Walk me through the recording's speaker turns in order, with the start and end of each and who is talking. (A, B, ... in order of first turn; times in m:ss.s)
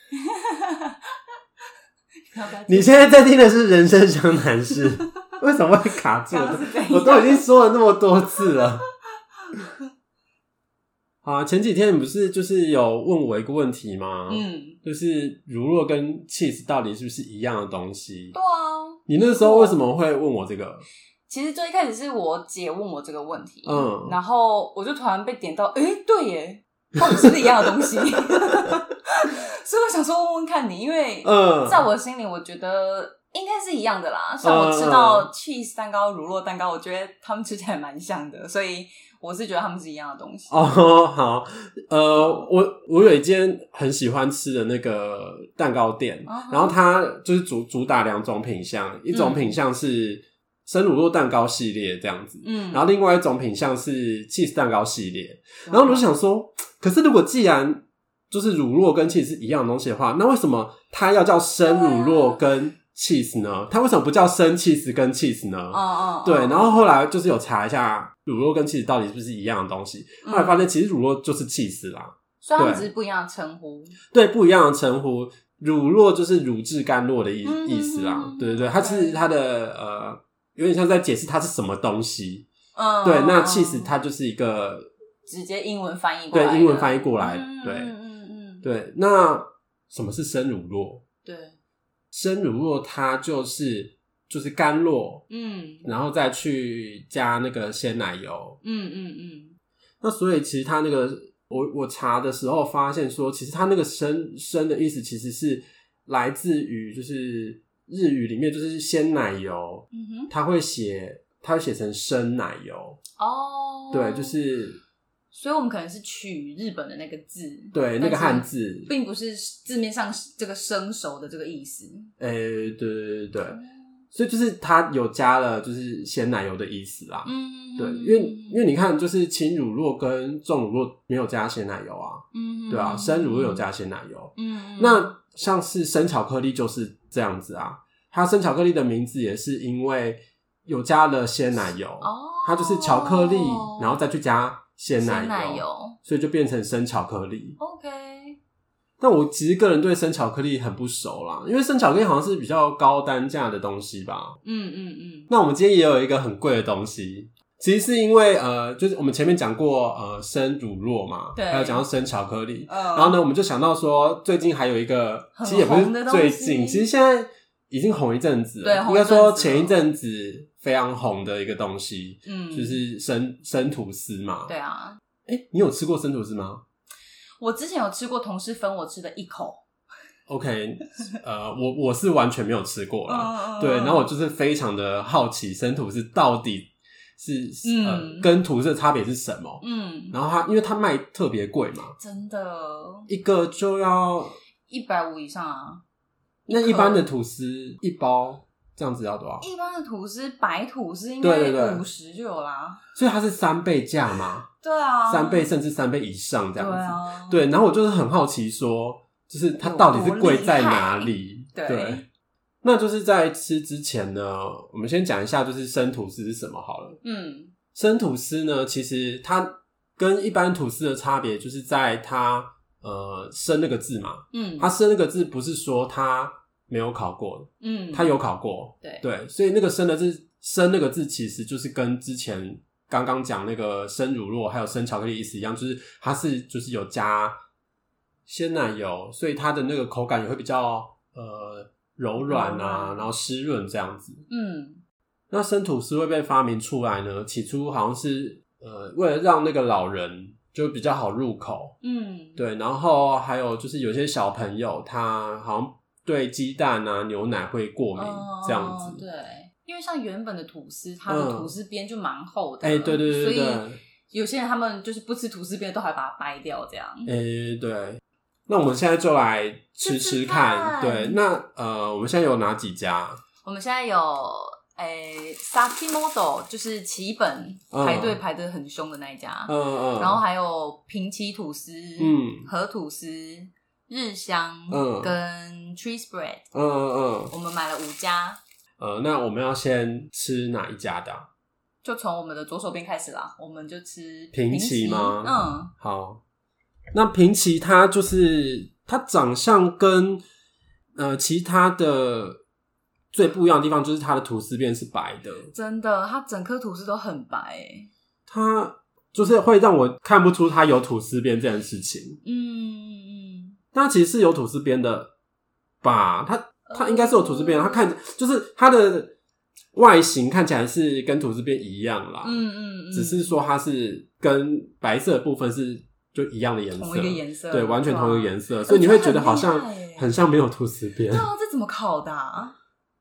0:00.2-0:01.0 A
0:02.3-0:03.1 A
0:02.7-0:08.8 B
0:06.3-0:07.4 A
0:11.2-0:18.4 B
0:14.3-0:14.8 A
0:18.3-0:19.8 A
0:19.1-0:20.8 B
0:21.3-0:40.7 A
0:23.6-0:24.2 B
0:31.2-0:31.9 B
0:34.4-0:35.3 B
0:40.5-1:12.9 B
0:46.2-0:46.8 A
0:49.1-0:49.5 A
0:52.4-0:52.8 A
0:55.7-0:56.0 A
1:01.6-1:02.4 A
1:05.7-1:06.7 A
1:10.2-1:10.7 A
1:12.4-1:14.0 A
1:14.1-1:22.4 B
1:17.4-1:19.2 A
1:22.7-1:23.9 A
1:23.0-1:24.9 B
1:25.3-1:28.6 A
1:26.3-1:27.9 B
1:28.6-1:31.0 B
1:31.2-1:31.6 A
1:32.1-1:35.2 B
1:35.3-1:35.9 A
1:35.8-1:38.6 B
1:38.6-1:39.6 A
1:40.0-1:53.0 B
1:49.9-1:50.3 A
1:53.2-1:54.4 A
1:53.9-1:54.8 B
1:55.3-2:02.1 A
1:57.7-1:58.9 B
2:02.2-2:03.6 B
2:03.5-2:03.8 A
2:04.1-2:27.6 B
2:07.2-2:08.6 A
2:12.3-2:13.6 A
2:14.4-2:15.1 A
2:22.0-2:24.0 A
2:25.0-2:26.0 A
2:27.6-2:28.4 A
2:29.0-2:34.4 B
2:34.4-2:35.3 A
2:35.3-2:54.5 B
2:41.3-2:41.8 A
2:42.7-2:43.2 A
2:45.4-2:46.9 A
2:48.6-2:49.7 A
2:52.2-2:52.8 A
2:54.5-2:55.0 A
2:55.2-2:56.6 B
2:57.4-2:59.6 A
3:00.3-3:12.0 B
3:03.1-3:04.1 A
3:07.6-3:08.3 A
3:09.6-3:10.2 A
3:12.0-3:13.1 A
3:13.1-3:14.4 B
3:14.7-3:15.8 A
3:16.5-3:17.0 A
3:16.5-3:19.4 B
3:19.4-3:22.8 A
3:21.2-3:21.8 B
3:23.0-3:24.5 B
3:24.6-3:25.5 A
3:25.1-3:32.0 B
3:26.6-3:27.4 A
3:29.6-3:32.0 A
3:32.6-3:37.0 B
3:37.0-3:37.5 A
3:37.7-3:57.4 B
3:44.3-3:44.7 A
3:47.6-3:48.2 A
3:58.2-4:04.2 B
4:02.2-4:03.0 A
4:04.3-4:04.8 A
4:05.3-4:11.8 B
4:11.8-4:12.4 A
4:12.4-4:19.0 B
4:18.0-4:27.1 A
4:21.1-4:21.6 B
4:22.6-4:23.8 B
4:27.0-4:33.2 B
4:29.8-4:31.2 A
4:33.4-4:46.4 A
4:37.7-4:38.2 B
4:39.5-4:40.2 B
4:42.0-4:42.5 B
4:44.7-4:45.1 B
4:46.5-4:47.3 B
4:47.3-4:48.4 A
4:48.8-4:51.3 B
4:51.8-4:55.7 A
4:54.3-4:56.2 B
4:56.9-5:00.2 B
5:01.0-5:02.4 B
5:03.1-5:05.5 B
5:05.5-5:07.9 A
5:08.3-5:12.2 B
5:12.2-5:13.6 A
5:13.7-5:15.1 B
5:15.8-5:19.1 B
5:16.7-5:17.9 A
5:19.7-5:31.3 B
5:22.2-5:23.4 A
5:26.7-5:30.1 A
5:31.1-5:32.5 A